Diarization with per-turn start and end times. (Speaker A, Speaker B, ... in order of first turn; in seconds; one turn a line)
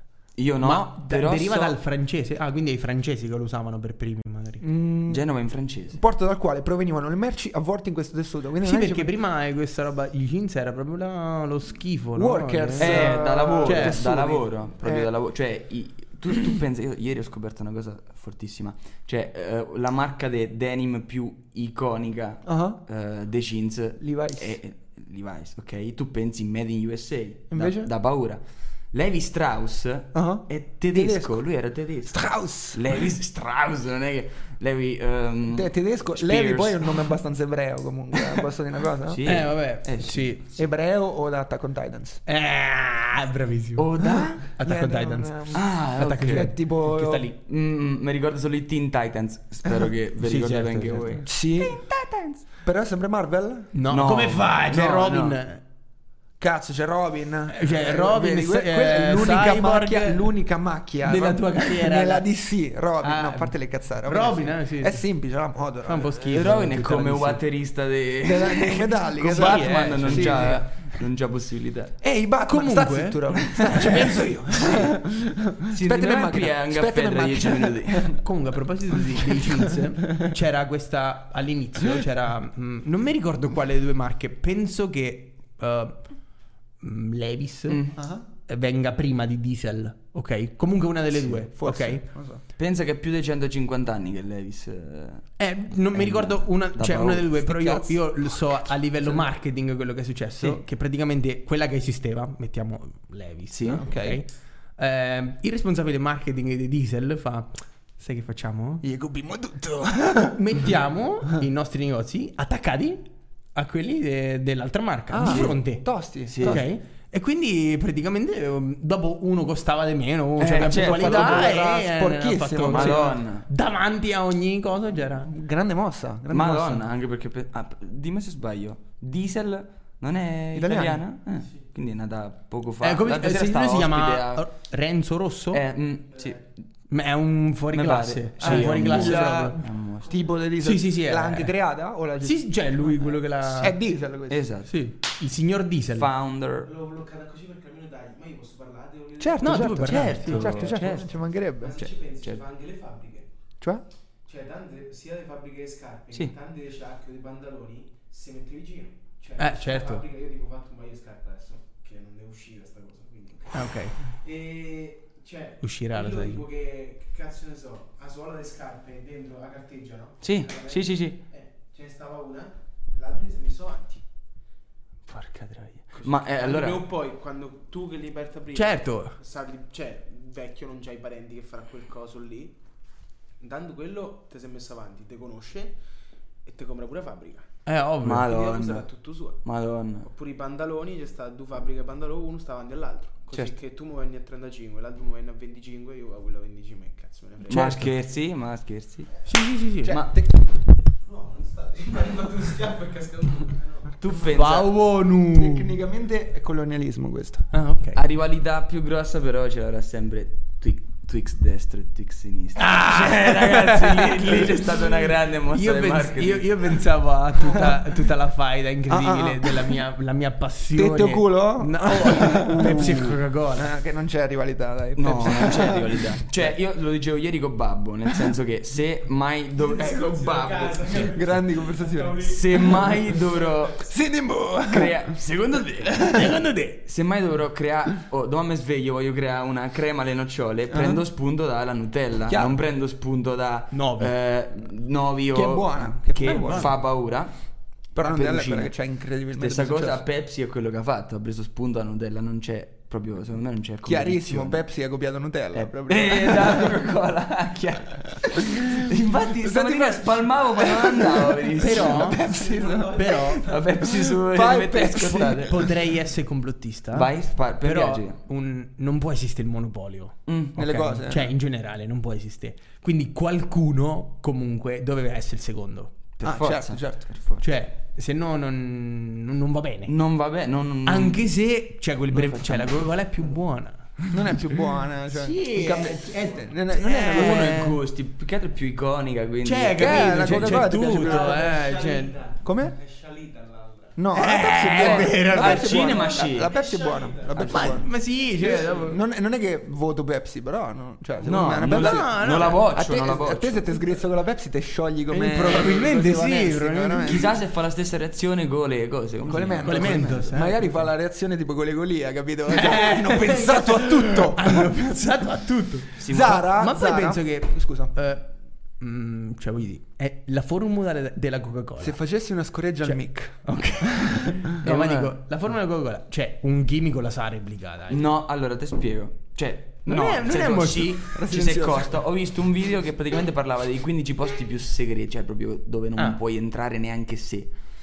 Speaker A: 0.3-1.8
Speaker B: 0.6-4.6
Speaker C: 4.6-5.2
Speaker A: 5.1-6.0
Speaker C: 5.9-9.1
Speaker B: 8.6-14.0
Speaker C: 12.2-15.1
Speaker A: 12.8-37.1
Speaker C: 22.4-22.8
Speaker C: 24.0-24.6
Speaker C: 27.5-27.9
Speaker C: 30.1-31.4
Speaker C: 32.1-32.9
Speaker C: 35.5-39.5
Speaker A: 39.0-40.6
Speaker B: 39.2-40.4
Speaker C: 40.5-42.2
Speaker B: 42.2-43.9
Speaker A: 43.8-44.4
Speaker C: 44.0-47.3
Speaker B: 44.5-47.3
Speaker A: 45.5-46.5
Speaker A: 47.1-52.5
Speaker B: 50.2-51.2
Speaker C: 51.2-51.8
Speaker C: 52.6-53.7
Speaker B: 53.7-55.6
Speaker A: 53.9-55.4
Speaker C: 56.4-66.2
Speaker B: 57.5-60.3
Speaker B: 61.0-62.2
Speaker B: 63.0-65.0
Speaker B: 65.8-67.4
Speaker A: 66.3-71.9
Speaker C: 68.2-70.7
Speaker B: 69.2-70.6
Speaker C: 72.0-78.2
Speaker B: 72.5-74.8
Speaker A: 74.5-74.9
Speaker A: 75.7-78.2
Speaker B: 78.2-86.1
Speaker B: 86.8-87.8
Speaker A: 87.7-88.0
Speaker C: 88.0-88.2
Speaker B: 88.5-92.0
Speaker C: 91.4-92.4
Speaker A: 92.6-95.3
Speaker B: 95.4-108.8
Speaker A: 95.9-98.0
Speaker A: 103.5-103.8
Speaker C: 103.8-104.2
Speaker C: 108.8-110.7
Speaker B: 110.3-125.3
Speaker C: 115.1-116.7
Speaker A: 115.2-115.5
Speaker A: 116.3-116.6
Speaker A: 120.4-121.5
Speaker C: 120.4-123.2
Speaker A: 122.7-123.5
Speaker C: 125.2-126.8
Speaker A: 126.3-134.5
Speaker C: 130.5-131.0
Speaker B: 132.8-135.6
Speaker A: 135.5-136.6
Speaker D: 136.1-136.4
Speaker B: 136.9-139.6
Speaker A: 137.7-140.1
Speaker C: 138.4-142.6
Speaker B: 140.6-141.5
Speaker B: 142.2-143.8
Speaker C: 143.5-144.5
Speaker A: 144.3-144.7
Speaker B: 144.7-146.1
Speaker A: 145.9-146.7
Speaker D: 146.6-149.7
Speaker C: 149.2-151.9
Speaker B: 149.4-150.5
Speaker A: 149.7-151.1
Speaker D: 150.5-151.0
Speaker D: 151.6-153.3
Speaker D: 154.2-174.0
Speaker B: 159.4-160.0
Speaker B: 163.5-163.9
Speaker B: 165.6-166.4
Speaker A: 170.2-171.2
Speaker B: 175.1-175.9
Speaker D: 176.0-182.6
Speaker A: 176.0-176.9
Speaker B: 178.5-179.2
Speaker D: 183.4-185.8
Speaker D: 186.4-187.5
Speaker B: 187.7-188.3
Speaker A: 188.0-188.9
Speaker D: 188.2-189.4
Speaker A: 189.4-190.1
Speaker D: 190.0-197.8
Speaker A: 197.5-199.1
Speaker B: 197.5-197.9
Speaker B: 199.2-200.0
Speaker C: 199.8-200.4
Speaker D: 201.0-204.2
Speaker A: 204.0-204.7
Speaker B: 204.3-205.7
Speaker C: 205.3-207.5
Speaker B: 207.5-208.0
Speaker A: 207.9-216.7
Speaker B: 212.6-214.7
Speaker B: 215.5-223.7
Speaker C: 218.9-219.8
Speaker C: 220.7-226.5
Speaker A: 224.9-231.2
Speaker D: 229.6-233.9
Speaker C: 231.1-232.4
Speaker A: 232.3-233.9
Speaker C: 233.8-235.2
Speaker A: 234.6-236.2
Speaker C: 235.8-236.3
Speaker B: 236.1-236.8
Speaker A: 236.9-247.3
Speaker C: 240.7-241.0
Speaker C: 242.3-242.6
Speaker B: 243.7-244.1
Speaker C: 245.3-246.7
Speaker B: 246.2-246.7
Speaker A: 247.9-248.8
Speaker C: 247.9-250.0
Speaker A: 249.3-254.6
Speaker C: 253.8-256.8
Speaker A: 255.5-262.6
Speaker C: 258.2-258.8
Speaker C: 259.4-263.0
Speaker B: 261.6-262.2
Speaker D: 262.3-263.6
Speaker B: 262.9-263.5
Speaker A: 263.3-265.6
Speaker C: 264.0-265.7
Speaker B: 265.5-275.9
Speaker A: 266.9-268.2
Speaker A: 270.3-270.6
Speaker C: 270.6-271.3
Speaker A: 276.2-277.4
Speaker C: 276.2-277.0
Speaker B: 277.4-279.9
Speaker A: 279.9-281.3
Speaker B: 280.8-284.0
Speaker A: 282.1-283.0
Speaker C: 284.1-287.7
Speaker B: 285.1-287.8
Speaker A: 286.9-290.9
Speaker B: 289.4-292.2
Speaker C: 289.8-291.4
Speaker D: 290.9-294.0
Speaker C: 292.4-292.7
Speaker C: 294.0-307.3
Speaker B: 294.1-295.8
Speaker A: 294.7-296.5
Speaker D: 295.5-298.9
Speaker B: 297.4-299.0
Speaker A: 301.2-303.6
Speaker B: 301.6-302.7
Speaker B: 305.1-307.3
Speaker A: 307.0-310.3
Speaker C: 309.2-314.7
Speaker B: 309.6-310.9
Speaker B: 312.5-322.0
Speaker A: 316.0-316.4
Speaker C: 316.0-317.9
Speaker C: 321.8-324.3
Speaker B: 322.8-328.1
Speaker A: 324.6-325.1
Speaker A: 327.9-337.5
Speaker B: 329.9-331.1
Speaker C: 331.1-332.0